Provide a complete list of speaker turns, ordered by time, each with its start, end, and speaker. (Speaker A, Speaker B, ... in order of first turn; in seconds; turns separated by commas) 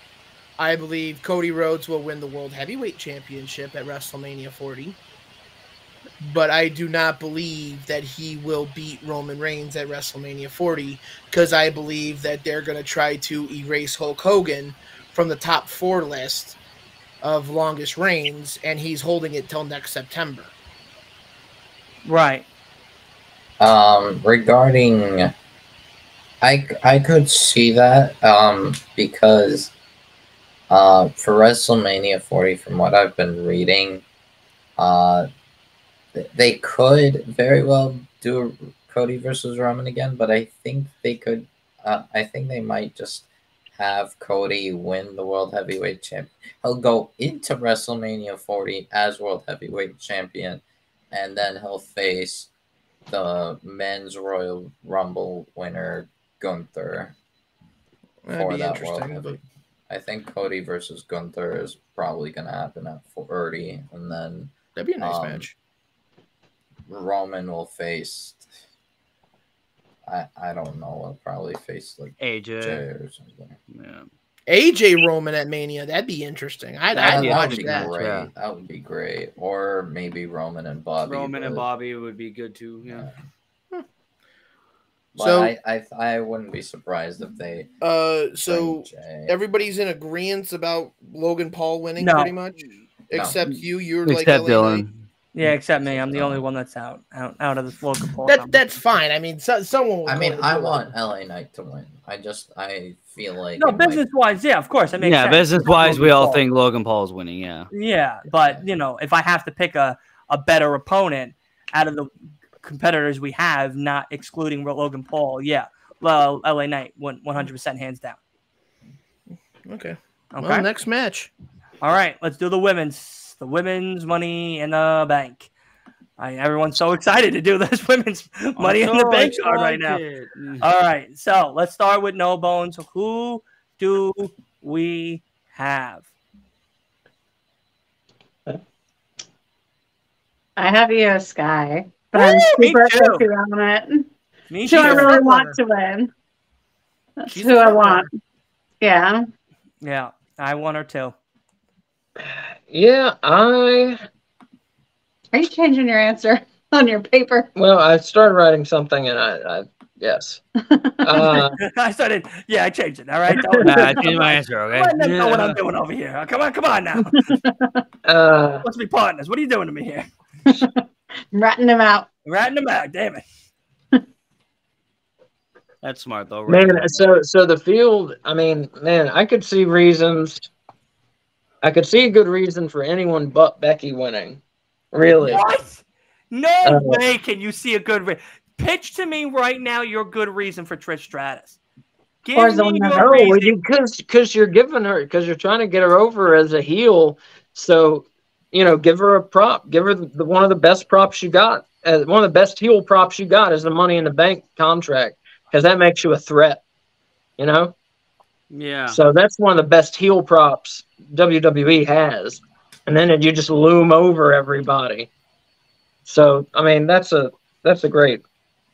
Speaker A: 0.6-5.0, Speaker A: 6.2-16.6, Speaker A: 17.2-20.6, Speaker B: 22.1-22.5, Speaker C: 23.6-25.3, Speaker C: 26.4-29.7, Speaker C: 30.7-34.0, Speaker C: 34.8-35.3, Speaker C: 36.1-52.5, Speaker C: 53.1-57.1, Speaker A: 58.2-59.4, Speaker C: 58.3-59.3, Speaker C: 59.9-65.5, Speaker A: 64.8-65.5, Speaker C: 66.9-68.5, Speaker C: 70.1-73.6, Speaker D: 72.2-72.8, Speaker D: 73.7-74.1, Speaker A: 74.5-77.9, Speaker D: 76.9-78.3, Speaker C: 77.0-81.7, Speaker D: 81.0-83.1, Speaker C: 82.9-83.1, Speaker C: 85.2-87.7, Speaker A: 85.2-85.5, Speaker A: 87.8-94.8, Speaker C: 88.5-89.3, Speaker B: 92.0-92.3, Speaker C: 93.1-93.5, Speaker D: 94.0-95.0, Speaker B: 95.3-98.6, Speaker C: 95.8-96.4, Speaker A: 98.3-100.8, Speaker C: 100.1-104.0, Speaker B: 103.6-106.4, Speaker D: 105.0-107.7, Speaker B: 107.7-118.2, Speaker A: 119.7-121.3, Speaker B: 120.3-120.7, Speaker B: 121.8-125.5, Speaker B: 126.2-130.0, Speaker D: 128.6-130.7, Speaker B: 130.6-136.1, Speaker E: 140.6-144.1, Speaker B: 142.1-143.2, Speaker B: 144.5-145.2, Speaker E: 144.7-146.1, Speaker A: 144.7-145.6, Speaker E: 147.2-148.1, Speaker A: 147.3-148.1, Speaker E: 148.8-149.2, Speaker B: 149.8-151.2, Speaker F: 152.2-154.0, Speaker E: 155.3-157.5, Speaker F: 157.6-160.4, Speaker E: 160.7-161.5, Speaker F: 161.0-161.6, Speaker B: 161.6-167.3, Speaker F: 163.3-163.7, Speaker D: 163.6-165.6, Speaker E: 167.3-167.8, Speaker F: 168.1-168.7, Speaker B: 168.6-170.1, Speaker E: 170.5-172.1, Speaker B: 172.2-173.2, Speaker D: 175.8-177.0, Speaker F: 176.5-180.5, Speaker F: 181.6-184.4, Speaker F: 184.9-185.4, Speaker B: 185.3-191.6, Speaker F: 186.6-187.0, Speaker B: 192.2-193.6, Speaker E: 192.3-193.2, Speaker F: 192.9-206.6, Speaker F: 207.4-207.8, Speaker D: 208.5-209.0, Speaker F: 208.9-215.1, Speaker F: 216.1-218.2